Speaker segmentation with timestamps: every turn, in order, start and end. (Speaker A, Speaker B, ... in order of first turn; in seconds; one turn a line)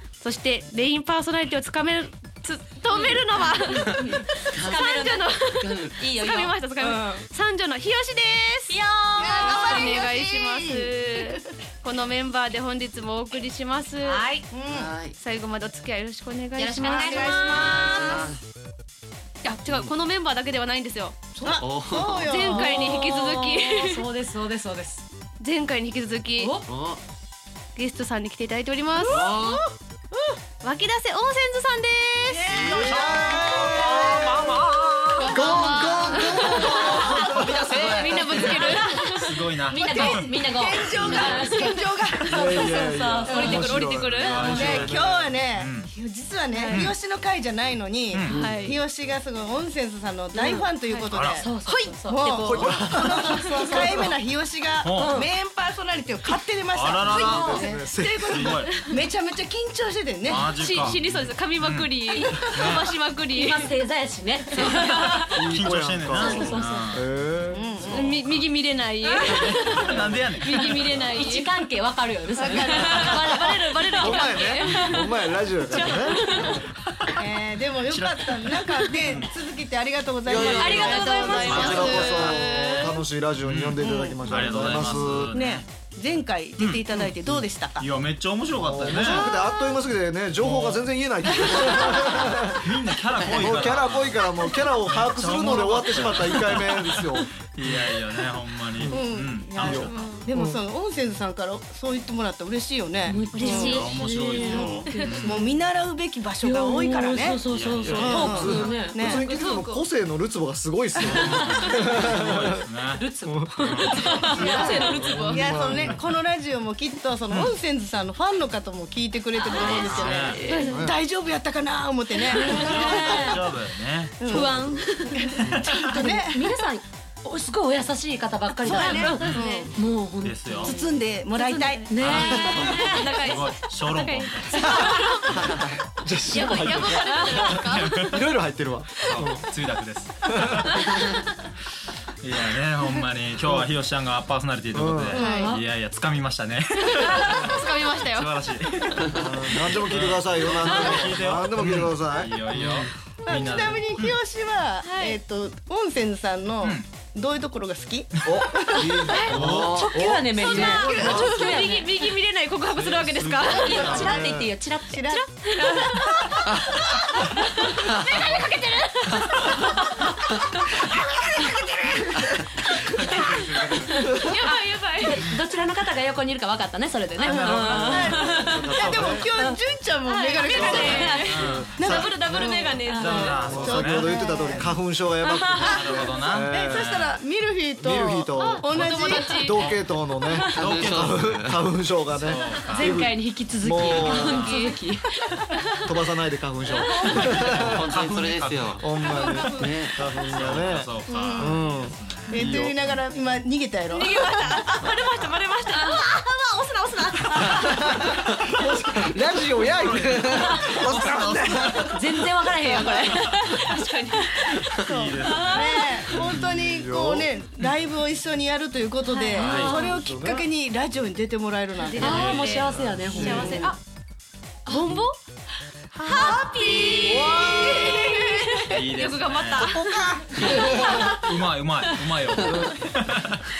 Speaker A: 0.2-14.3
Speaker B: 2.9-5.3
Speaker C: 3.9-4.9
Speaker C: 5.5-6.0
Speaker B: 5.9-7.3
Speaker B: 8.7-10.1
Speaker D: 9.2-11.4
Speaker B: 14.0-14.5
Speaker D: 14.5-14.9
Speaker C: 14.7-15.2
Speaker A: 15.1-18.1
Speaker B: 16.6-18.3
Speaker D: 16.8-18.2
Speaker C: 17.6-18.4
Speaker A: 19.4-21.2
Speaker D: 21.4-23.0
Speaker C: 21.6-22.6
Speaker A: 22.2-24.1
Speaker B: 22.4-25.0
Speaker A: 25.4-26.6
Speaker B: 26.4-26.7
Speaker C: 26.6-27.0
Speaker A: 27.8-29.2
Speaker D: 29.0-29.5
Speaker C: 29.1-29.6
Speaker A: 30.6-32.5
Speaker D: 32.3-34.5
Speaker E: 32.5-35.5
Speaker F: 32.5-34.5
Speaker A: 35.1-39.4
Speaker F: 35.2-37.7
Speaker D: 35.4-35.7
Speaker B: 36.1-36.6
Speaker C: 36.2-38.8
Speaker D: 36.4-37.2
Speaker E: 37.3-38.6
Speaker B: 38.5-43.8
Speaker E: 39.2-40.4
Speaker D: 39.8-42.8
Speaker E: 41.0-41.4
Speaker F: 42.3-45.4
Speaker A: 43.3-44.4
Speaker E: 44.2-46.0
Speaker B: 44.3-44.6
Speaker D: 44.5-60.6
Speaker A: 46.5-46.9
Speaker E: 46.7-47.0
Speaker E: 48.1-48.4
Speaker C: 48.3-48.7
Speaker A: 48.3-48.8
Speaker A: 50.4-51.1
Speaker E: 51.1-51.5
Speaker B: 51.4-53.8
Speaker A: 51.6-52.8
Speaker F: 52.4-54.1
Speaker A: 53.4-53.7
Speaker E: 54.8-55.2
Speaker B: 54.9-55.3
Speaker E: 56.7-57.6
Speaker F: 57.0-58.6
Speaker B: 57.1-57.8
Speaker E: 58.2-58.8
Speaker A: 58.7-59.0
Speaker E: 60.2-62.9
Speaker A: 60.4-63.7
Speaker B: 62.1-62.6
Speaker B: 63.3-65.4
Speaker A: 64.5-65.3
Speaker F: 65.3-68.0
Speaker E: 65.4-67.1
Speaker B: 66.1-67.0
Speaker D: 67.5-68.2
Speaker E: 67.8-68.5
Speaker A: 67.9-71.6
Speaker B: 69.1-69.5
Speaker E: 69.2-71.0
Speaker B: 70.5-73.4
Speaker D: 72.4-73.3
Speaker A: 72.8-74.9
Speaker F: 72.9-76.4
Speaker B: 74.2-75.1
Speaker B: 75.7-76.7
Speaker A: 76.1-76.5
Speaker E: 76.5-77.1
Speaker D: 77.2-82.4
Speaker E: 77.8-79.4
Speaker C: 80.3-82.3
Speaker B: 80.3-81.9
Speaker A: 80.8-83.0
Speaker F: 81.4-85.4
Speaker E: 81.5-82.0
Speaker E: 83.4-85.7
Speaker D: 83.8-87.9
Speaker E: 86.6-87.1
Speaker E: 87.8-89.3
Speaker F: 88.6-92.6
Speaker D: 89.0-89.4
Speaker E: 90.4-90.8
Speaker D: 91.3-92.4
Speaker E: 92.3-100.3
Speaker F: 93.2-97.7
Speaker F: 98.8-100.6
Speaker D: 98.9-109.3
Speaker A: 99.9-100.2
Speaker B: 103.1-105.4
Speaker A: 103.3-103.8
Speaker E: 103.4-105.5
Speaker A: 104.5-105.2
Speaker B: 106.4-109.0
Speaker E: 107.5-108.5
Speaker F: 107.8-112.6
Speaker A: 108.6-109.8
Speaker D: 111.0-111.4
Speaker E: 111.1-113.0
Speaker B: 111.2-112.0
Speaker B: 112.9-115.0
Speaker F: 113.2-116.0
Speaker E: 113.6-114.2
Speaker D: 114.1-123.5
Speaker A: 114.4-115.5
Speaker E: 114.9-115.3
Speaker E: 117.3-117.5
Speaker B: 119.4-120.7
Speaker E: 119.5-120.5
Speaker A: 120.4-120.8
Speaker F: 120.6-121.0
Speaker B: 122.3-123.4
Speaker E: 122.3-124.7
Speaker D: 124.2-126.4
Speaker A: 124.4-125.4
Speaker E: 125.3-125.8
Speaker B: 125.6-130.8
Speaker D: 128.6-129.7
Speaker E: 129.1-129.4
Speaker A: 129.3-129.8
Speaker E: 130.2-130.7
Speaker A: 130.6-135.5
Speaker D: 130.7-132.6
Speaker B: 131.9-132.8
Speaker E: 132.0-134.9
Speaker F: 134.6-139.4
Speaker A: 136.3-138.0
Speaker B: 136.7-137.5
Speaker E: 137.5-138.4
Speaker E: 139.0-140.9
Speaker F: 140.3-141.1
Speaker E: 142.2-154.2
Speaker F: 143.4-143.7
Speaker F: 144.7-145.2
Speaker B: 145.1-145.7
Speaker D: 145.1-145.5
Speaker A: 145.2-145.5
Speaker A: 146.8-148.4
Speaker F: 149.1-152.9
Speaker D: 153.2-159.3
Speaker A: 154.8-155.2
Speaker E: 156.6-156.9
Speaker F: 158.2-161.3
Speaker B: 159.1-162.0
Speaker E: 159.3-159.7
Speaker C: 159.4-159.9
Speaker D: 160.3-161.4
Speaker A: 160.4-164.3
Speaker E: 162.7-164.2
Speaker B: 163.5-165.8
Speaker D: 163.8-164.1
Speaker F: 163.8-164.5
Speaker D: 164.9-167.4
Speaker A: 165.1-166.9
Speaker A: 167.4-170.0
Speaker B: 169.5-170.1
Speaker D: 170.7-172.3
Speaker A: 172.8-173.4
Speaker E: 173.0-174.1
Speaker B: 173.2-179.6
Speaker D: 173.2-173.8
Speaker A: 174.1-175.3
Speaker D: 177.2-184.8
Speaker F: 177.4-179.3
Speaker E: 178.7-179.2
Speaker A: 180.0-181.3
Speaker F: 180.5-182.5
Speaker B: 180.5-181.4
Speaker E: 180.6-182.3
Speaker A: 181.9-183.2
Speaker B: 182.8-183.4
Speaker E: 183.0-184.2
Speaker F: 183.2-187.0
Speaker A: 185.2-185.6
Speaker E: 185.6-187.2
Speaker D: 185.6-189.6
Speaker F: 187.8-194.6
Speaker A: 188.4-189.7
Speaker C: 189.6-189.8
Speaker C: 190.5-191.7
Speaker E: 190.6-191.2
Speaker E: 192.1-193.1
Speaker B: 192.7-195.5
Speaker E: 193.8-194.6
Speaker A: 193.9-195.9
Speaker F: 195.8-197.8
Speaker D: 196.9-197.5
Speaker C: 197.3-198.9
Speaker E: 197.5-199.1
Speaker F: 198.8-202.7
Speaker A: 199.1-199.7
Speaker C: 199.5-200.0
Speaker E: 200.1-203.0
Speaker D: 201.1-201.6
Speaker D: 202.3-204.4
Speaker A: 203.9-208.0
Speaker B: 205.7-206.0
Speaker F: 207.4-211.9
Speaker E: 209.6-212.0
Speaker B: 211.9-214.7
Speaker A: 212.6-214.7
Speaker D: 214.8-222.5
Speaker E: 214.8-216.5
Speaker B: 215.2-215.9
Speaker F: 216.2-217.3
Speaker A: 219.0-219.5
Speaker E: 219.4-219.8
Speaker B: 219.4-219.9
Speaker F: 219.4-220.5
Speaker A: 221.8-223.8
Speaker B: 221.9-223.8
Speaker E: 222.1-223.1
Speaker F: 223.1-223.6
Speaker D: 223.2-223.7
Speaker A: 224.7-225.2
Speaker B: 224.7-225.0
Speaker D: 226.0-228.8
Speaker A: 226.0-231.3
Speaker F: 226.9-228.1
Speaker E: 228.7-229.8
Speaker F: 229.5-231.2
Speaker E: 230.3-233.5
Speaker B: 230.5-231.0